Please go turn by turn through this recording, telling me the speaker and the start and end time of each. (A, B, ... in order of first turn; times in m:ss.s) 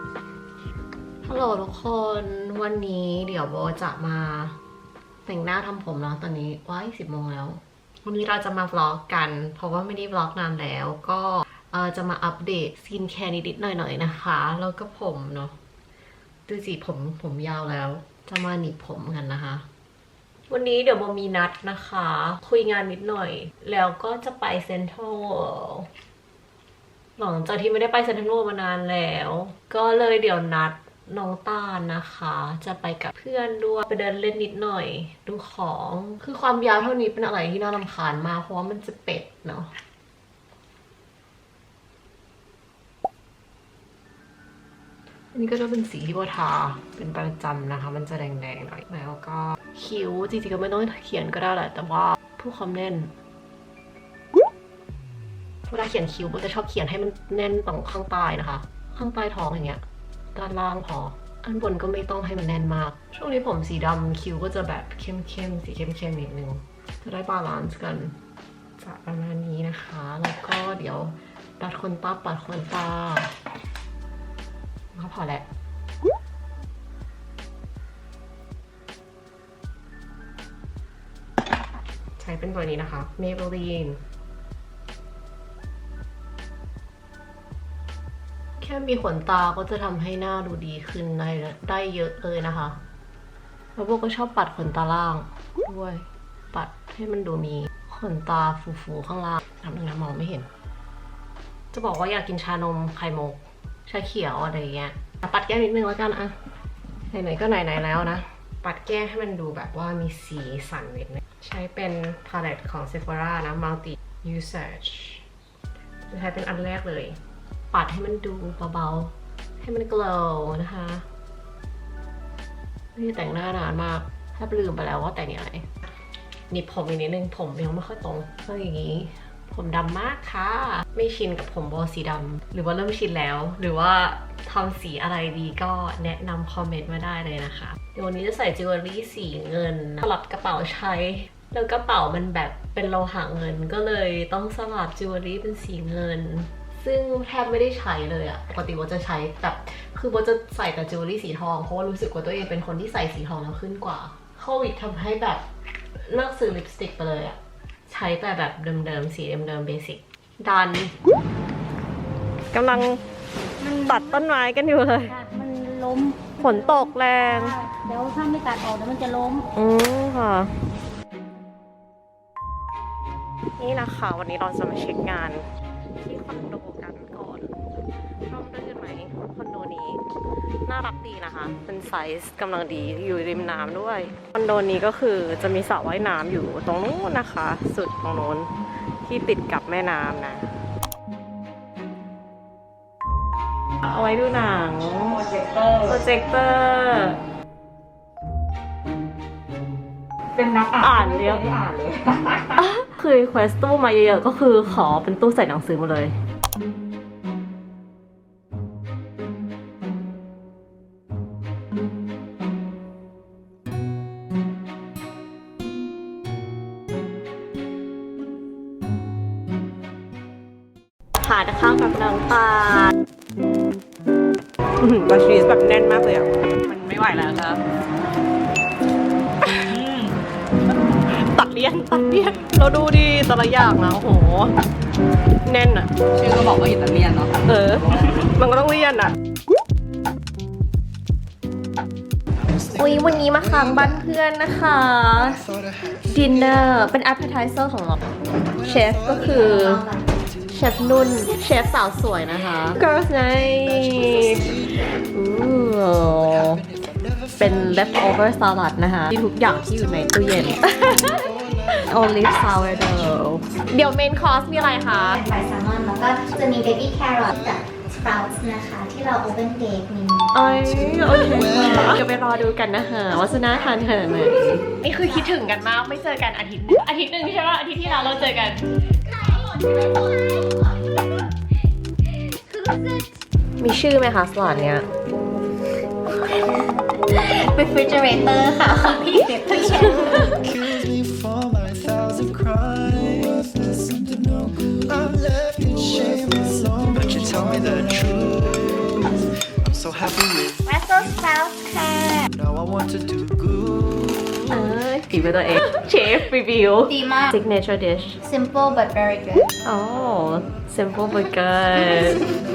0:01.2-0:04.6 A
0:05.3-0:15.6 A
0:16.5-0:19.7 A
0:20.5-0:25.9 A
0:27.2-0:39.7 A
0:45.3-0:53.1 A
0:55.7-0:59.8 A
1:00.4-1:08.2 A
1:08.8-1:13.4 A
1:14.9-1:15.5 A
1:22.2-1:24.0 A
1:28.6-1:32.8 A
1:33.8-1:40.5 A
1:41.7-1:46.4 A
1:47.1-1:55.2 A
1:56.1-1:57.2 A
1:57.7-2:01.1 A
2:03.0-2:05.7 A
2:06.5-2:35.4 A
2:36.0-2:40.9 A
2:42.5-2:43.0 A
2:43.6-2:44.2 B
2:43.8-2:45.1 A
2:45.1-2:49.5 B
2:46.4-2:47.6 A
2:49.5-2:50.6 A
2:53.6-2:55.5 A
2:56.0-2:57.6 A
2:58.3-3:00.0 A
3:00.7-3:10.5 A
3:13.8-3:15.3 A
3:15.2-3:15.9 C
3:15.8-3:17.2 A
3:20.4-3:22.4 C
3:20.8-3:21.5 A
3:22.5-3:26.1 A
3:41.2-3:42.9 A
3:44.8-3:47.6 A
3:49.5-3:49.8 A
3:49.7-3:50.1 C
3:51.1-3:54.5 A
3:55.4-3:56.0 A
3:56.2-3:57.4 C
3:57.4-3:59.1 A
4:02.5-4:04.0 D
4:02.7-4:05.4 A
4:05.3-4:06.0 D
4:06.1-4:08.0 A
4:08.4-4:11.0 D
4:08.6-4:09.8 A
4:09.1-4:10.1 E
4:10.5-4:14.6 A
4:13.3-4:14.7 D
4:15.1-4:16.6 A
4:16.3-4:17.9 D
4:17.4-4:25.2 A
4:19.8-4:22.8 D
4:24.9-4:30.3 E
4:25.4-4:28.1 D
4:30.3-4:38.7 A
4:30.6-4:31.9 D
4:35.0-4:35.3 E
4:37.9-4:38.3 E
4:39.0-4:41.0 E
4:42.4-4:43.1 E
4:43.6-4:44.9 A
4:46.3-4:50.4 E
4:49.5-5:01.3 D
5:00.7-5:02.3 E
5:02.3-5:04.7 D
5:04.5-5:08.2 A
5:06.9-5:07.4 E
5:08.2-5:09.5 E
5:09.6-5:12.3 A